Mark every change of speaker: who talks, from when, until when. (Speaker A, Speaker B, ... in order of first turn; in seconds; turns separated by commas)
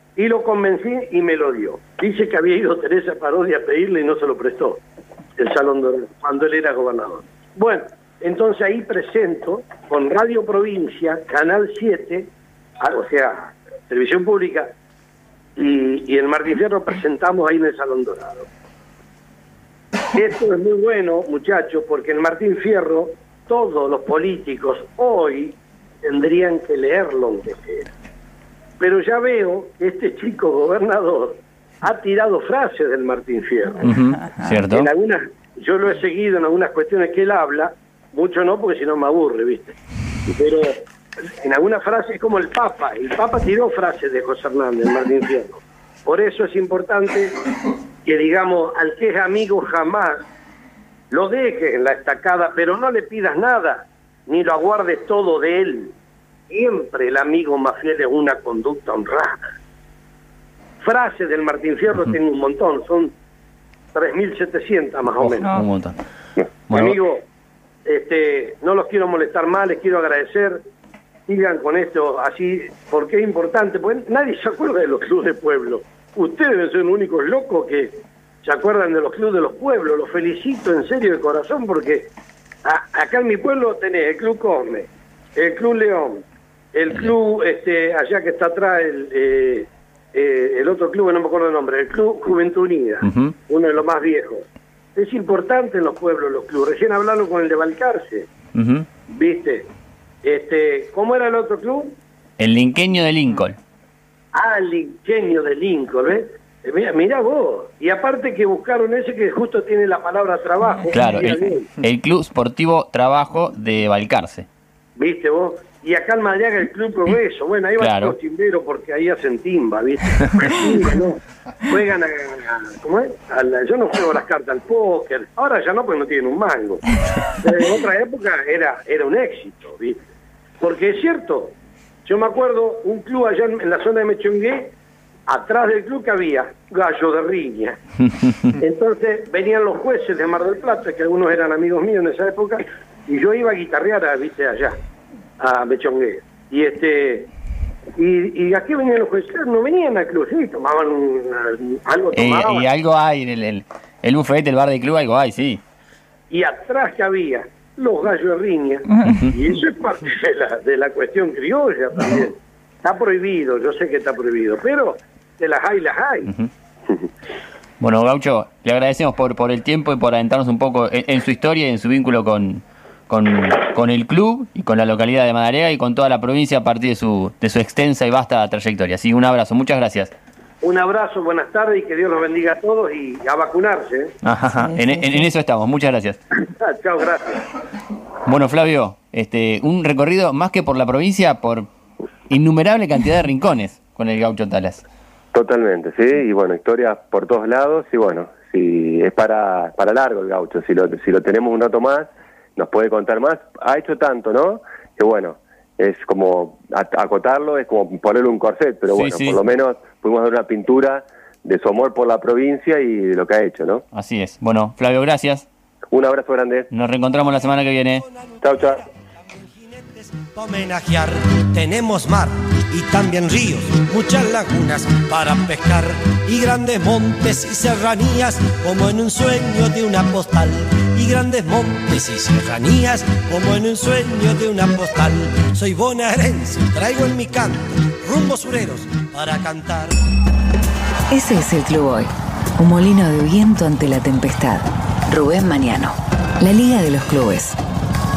Speaker A: 0.1-4.8, Speaker A: 5.4-12.3, Speaker A: 12.8-14.7, Speaker A: 15.6-18.5, Speaker A: 20.1-27.9, Speaker A: 28.8-33.9, Speaker B: 33.8-34.9, Speaker A: 34.7-39.8, Speaker A: 40.3-40.8, Speaker A: 41.4-47.4, Speaker A: 48.0-50.2, Speaker A: 51.1-55.9, Speaker A: 56.5-59.5, Speaker A: 60.8-63.1, Speaker A: 63.9-65.5, Speaker B: 65.2-66.0, Speaker B: 66.7-67.0, Speaker A: 66.7-67.2, Speaker A: 67.8-70.6, Speaker A: 71.3-82.1, Speaker A: 82.6-86.2, Speaker A: 86.7-98.3, Speaker B: 93.0-93.3, Speaker B: 98.5-98.8, Speaker A: 99.1-99.7, Speaker A: 100.2-102.0, Speaker B: 102.4-103.6, Speaker A: 104.3-111.7, Speaker B: 110.9-114.5, Speaker A: 115.0-130.0, Speaker B: 117.8-118.2, Speaker A: 130.6-134.7, Speaker A: 135.3-137.8, Speaker A: 138.6-144.8, Speaker A: 145.4-147.3, Speaker A: 148.0-152.7, Speaker B: 152.1-155.6, Speaker A: 156.3-166.3, Speaker B: 159.0-159.3, Speaker B: 167.8-180.1, Speaker A: 180.6-184.1, Speaker B: 184.2-186.2, Speaker A: 186.5-187.4, Speaker B: 188.2-191.7, Speaker B: 192.3-194.8, Speaker C: 195.3-213.8, Speaker B: 208.9-209.4, Speaker B: 213.9-215.5, Speaker C: 215.9-216.7, Speaker B: 216.7-218.0, Speaker D: 218.3-218.7, Speaker C: 218.4-218.8, Speaker D: 219.3-239.9, Speaker E: 241.1-247.6